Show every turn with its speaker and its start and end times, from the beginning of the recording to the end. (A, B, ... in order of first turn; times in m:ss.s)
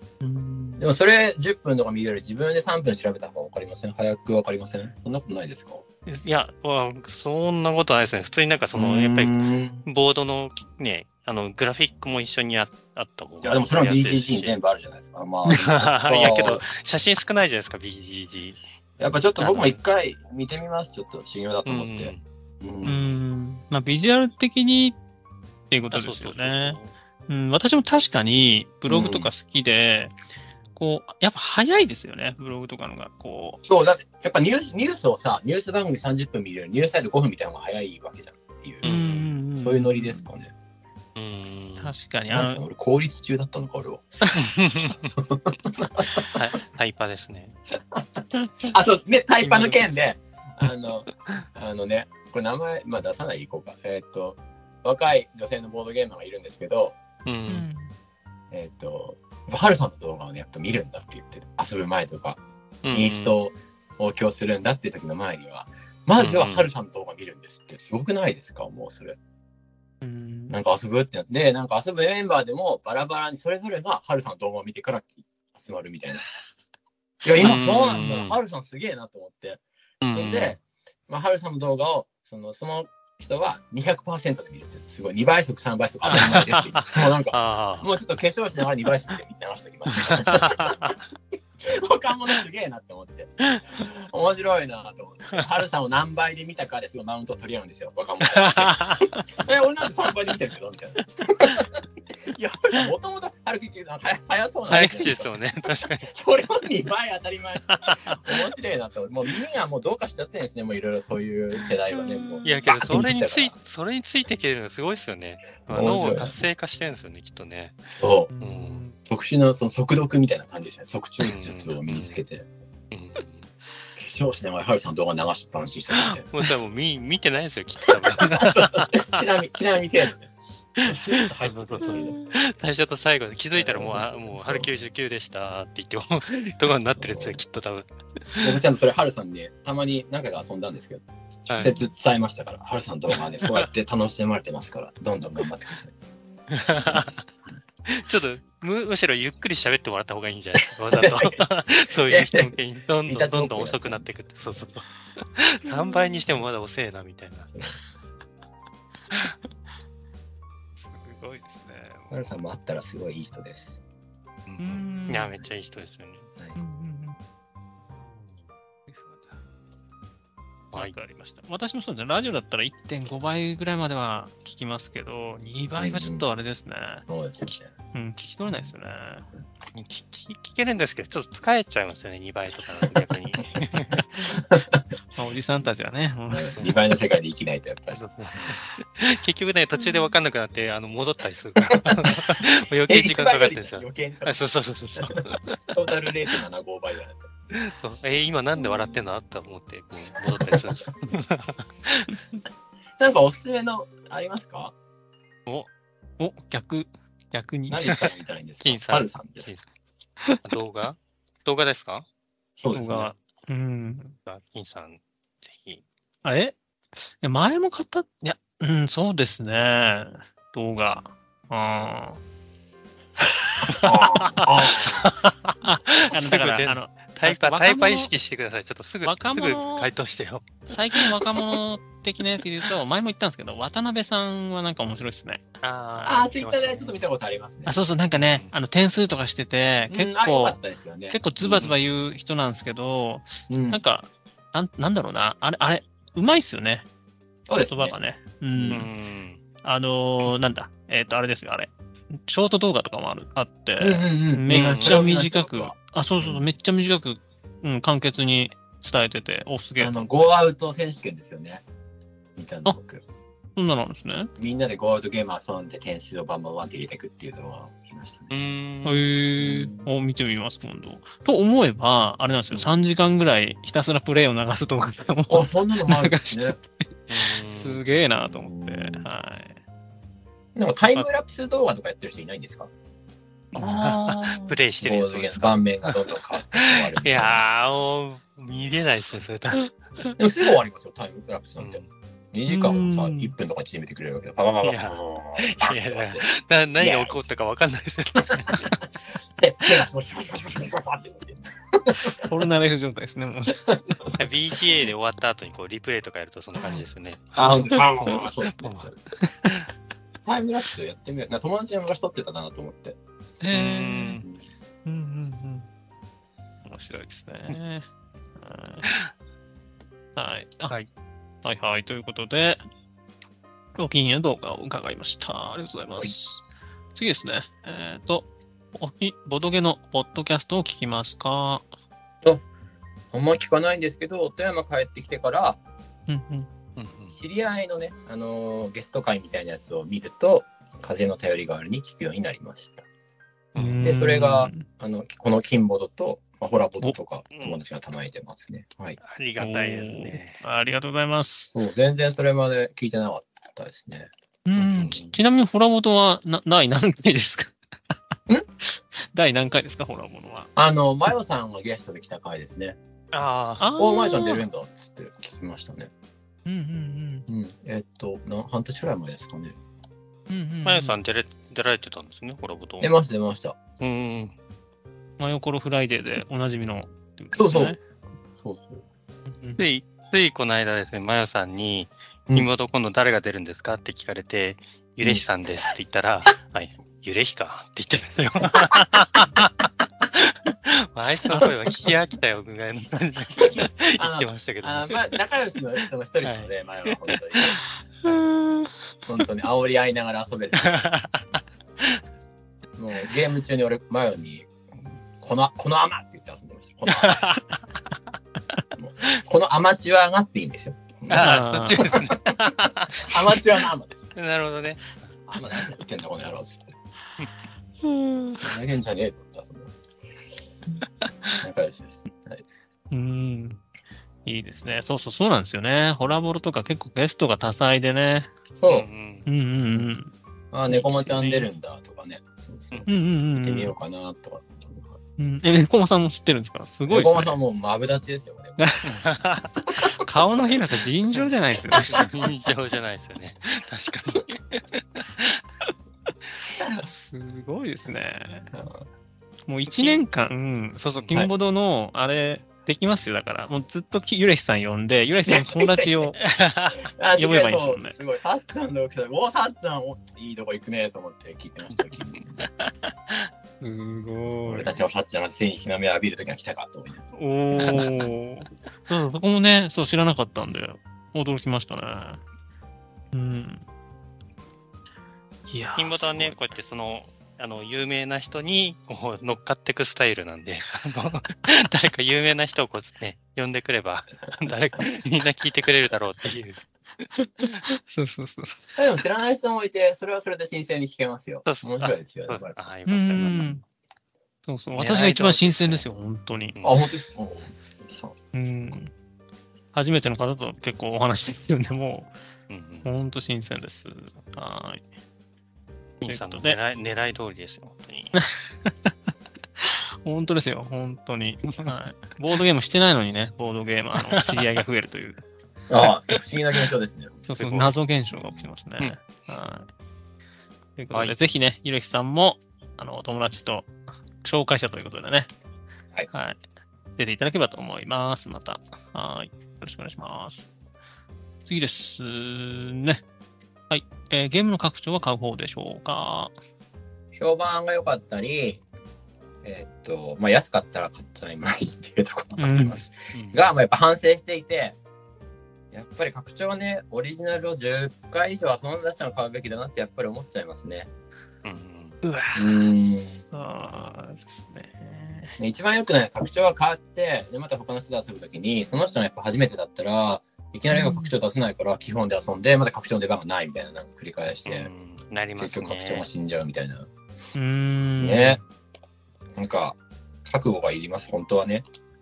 0:00.2-0:00.8 A
0:00.8-0:05.8 B
0:06.1-0:14.5 C
0:08.7-0:09.8 B
0:13.4-0:16.7 B
0:15.5-0:18.6 C
0:19.0-0:23.0 B
0:19.4-0:19.8 C
0:21.7-0:22.2 C
0:22.8-0:25.0 A
0:25.7-0:30.1 A
0:25.9-0:26.9 C
0:28.9-0:29.3 B
0:30.8-0:33.6 A
0:33.6-0:40.5 B
0:38.8-0:39.3 C
0:38.8-0:40.2 A
0:41.2-0:41.9 C
0:41.8-0:42.6 A
0:42.3-0:46.3 B
0:44.4-0:45.0 C
0:46.3-0:47.6 C
0:47.7-0:57.0 B
0:49.4-0:50.0 C
0:57.3-0:57.7 C
0:57.5-0:57.9 A
0:58.5-1:09.2 B
1:02.8-1:03.4 C
1:06.2-1:06.7 C
1:10.0-1:10.6 A
1:10.5-1:16.2 B
1:17.2-1:19.6 B
1:17.4-1:18.4 C
1:20.0-1:20.6 C
1:20.1-1:30.8 B
1:26.0-1:26.5 A
1:26.1-1:27.9 C
1:29.9-1:31.0 C
1:31.6-1:53.6 B
1:38.3-1:39.0 C
1:44.7-1:46.1 C
1:47.7-1:48.2 C
1:52.3-1:52.6 A
1:52.4-1:57.8 C
1:55.7-1:56.4 B
1:58.0-1:58.3 B
1:58.3-1:59.0 A
1:58.4-1:58.8 C
1:59.0-2:02.5 B
2:01.2-2:02.2 C
2:02.9-2:03.5 C
2:04.0-2:06.3 B
2:06.0-2:09.2 C
2:07.9-2:12.2 B
2:10.8-2:18.6 C
2:13.6-2:14.7 B
2:17.0-2:17.4 B
2:18.4-2:26.0 B
2:21.5-2:21.8 C
2:23.4-2:23.7 C
2:26.5-2:27.2 C
2:26.8-2:27.2 B
2:27.9-2:37.5 C
2:30.9-2:32.5 B
2:33.1-2:34.6 B
2:40.8-2:42.2 A
2:42.1-2:43.8 B
2:44.5-2:46.3 C
2:44.6-2:45.4 A
2:46.6-2:47.2 A
2:48.9-2:49.3 A
2:50.7-2:57.0 A
2:55.8-2:56.2 B
2:57.1-2:57.7 B
2:57.9-2:59.3 A
2:59.7-3:04.2 C
3:03.5-3:04.8 B
3:05.2-3:06.6 A
3:06.3-3:08.6 B
3:07.9-3:15.8 C
3:11.7-3:14.4 B
3:15.0-3:17.3 B
3:17.5-3:22.2 C
3:20.3-3:20.8 B
3:23.0-3:24.7 B
3:26.2-3:28.1 A
3:27.7-3:29.5 B
3:28.6-3:29.6 C
3:30.4-3:32.1 C
3:32.6-3:33.1 B
3:32.7-3:34.2 A
3:34.3-3:35.8 C
3:36.2-3:42.2 A
3:43.7-3:51.1 C
3:43.8-3:45.1 B
3:45.6-3:48.1 A
3:49.0-3:49.9 A
3:50.7-3:55.4 A
3:55.6-3:57.0 C
3:56.0-3:57.8 B
3:57.7-4:00.6 A
3:58.2-3:58.5 C
3:59.9-4:01.7 B
4:01.1-4:06.9 A
4:03.5-4:03.8 B
4:07.5-4:08.0 B
4:07.6-4:08.9 A
4:08.5-4:08.9 B
4:08.7-4:09.4 C
4:09.6-4:20.3 A
4:13.8-4:16.4 B
4:14.5-4:15.0 C
4:19.8-4:21.6 B
4:22.4-4:23.0 B
4:23.6-4:24.3 A
4:24.4-4:28.3 B
4:28.3-4:29.1 C
4:28.8-4:36.6 A
4:29.4-4:29.9 B
4:35.3-4:36.6 B
4:37.1-4:37.8 C
4:37.4-4:39.6 A
4:38.2-4:39.0 B
4:40.6-4:42.7 B
4:43.6-4:44.6 A
4:43.6-4:49.7 C
4:44.8-4:47.4 B
4:50.2-4:51.8 B
4:51.6-4:51.9 C
4:52.3-4:57.2 B
4:52.5-4:53.3 A
4:54.6-4:58.8 C
4:58.3-4:58.8 B
4:59.4-5:02.2 B
5:01.9-5:03.7 A
5:03.6-5:04.6 B
5:04.2-5:08.9 C
5:07.4-5:09.1 B
5:10.2-5:13.0 B
5:13.4-5:14.2 A
5:13.5-5:14.2 C
5:14.8-5:15.7 A
5:16.7-5:17.9 A
5:18.4-5:18.9 A
5:20.2-5:20.8 A
5:21.4-5:22.6 A
5:23.8-5:26.4 A
5:27.0-5:31.6 A
5:33.1-5:35.6 B
5:36.1-5:36.5 A
5:36.8-5:37.2 C
5:37.1-5:42.9 B
5:43.5-5:43.9 C
5:43.6-5:44.6 A
5:43.8-5:49.0 B
5:47.3-5:47.6 C
5:49.0-5:50.4 C
5:49.4-5:51.5 A
5:51.5-5:54.1 B
5:54.4-5:57.5 A
5:54.6-5:55.1 C
5:59.0-6:00.5 A
6:00.6-6:02.8 B
6:03.1-6:03.7 C
6:03.6-6:04.4 A
6:03.8-6:05.9 B
6:06.4-6:07.3 A
6:07.3-6:09.6 B
6:10.3-6:11.0 A
6:10.6-6:12.9 C
6:12.8-6:13.6 B
6:13.8-6:14.3 C
6:15.2-6:17.8 A
6:17.3-6:17.8 B
6:18.4-6:18.8 B
6:19.3-6:19.6 A
6:19.6-6:35.1 C
6:33.4-6:37.6 B
6:36.2-6:37.5 C
6:38.1-6:38.7 A
6:39.1-6:40.8 B
6:40.6-6:41.2 C
6:42.8-6:47.2 B
6:46.9-6:47.4 C
6:48.8-6:52.3 B
6:51.1-6:53.4 C
6:51.1-6:51.9 A
6:53.0-6:54.0 B
6:54.2-6:55.0 C
6:55.3-6:56.7 B
6:57.8-6:58.4 A
6:58.4-6:59.8 B
7:01.4-7:02.4 B
7:02.9-7:03.6 A
7:04.3-7:08.3 A
7:08.6-7:08.9 B
7:08.7-7:09.3 C
7:09.3-7:10.1 A
7:10.5-7:15.0 B
7:10.7-7:11.5 A
7:12.9-7:13.8 A
7:15.2-7:17.4 A
7:16.9-7:18.8 B
7:18.6-7:19.0 A
7:18.8-7:19.5 C
7:19.7-7:22.1 A
7:21.8-7:24.6 C
7:26.8-7:28.5 A
7:28.5-7:28.9 B
7:29.5-7:36.2 A
7:31.0-7:31.2 C
7:35.3-7:36.2 B
7:36.2-7:36.8 C
7:36.8-7:42.5 B
7:37.1-7:37.9 A
7:43.6-7:44.8 A
7:44.4-7:47.0 B
7:47.1-7:52.2 A
7:47.6-7:47.9 C
7:53.1-7:53.6 A
7:55.5-7:56.4 A
7:55.8-8:06.6 C
8:07.2-8:08.7 A
8:08.8-8:12.6 B
8:11.4-8:13.6 C
8:12.9-8:13.6 A
8:13.2-8:13.5 B
8:14.5-8:16.6 A
8:14.8-8:15.9 C
8:16.6-8:16.8 C
8:16.6-8:18.2 B
8:18.3-8:18.9 A
8:19.7-8:22.1 A
8:22.5-8:22.9 C
8:22.8-8:24.8 A
8:26.0-8:28.2 C
8:26.1-8:26.6 A
8:28.2-8:28.9 A
8:29.6-8:35.2 A
8:34.2-8:34.4 C
8:35.7-8:37.3 B
8:37.3-8:39.7 A
8:37.4-8:37.7 C
8:40.8-8:43.7 A
8:44.2-8:45.3 A
8:46.1-8:46.4 A
8:47.0-8:50.5 A
8:51.5-8:53.0 A
8:53.7-8:56.3 A
8:57.1-8:58.6 B
8:59.4-9:04.8 B
9:02.4-9:02.8 A
9:03.1-9:03.4 C
9:05.7-9:10.9 B
9:11.4-9:12.0 C
9:12.0-9:15.4 A
9:12.4-9:13.2 B
9:15.4-9:24.7 B
9:20.7-9:21.1 A
9:24.5-9:26.1 C
9:25.4-9:26.9 B
9:27.4-9:28.4 A
9:28.0-9:28.4 B
9:29.4-9:31.6 B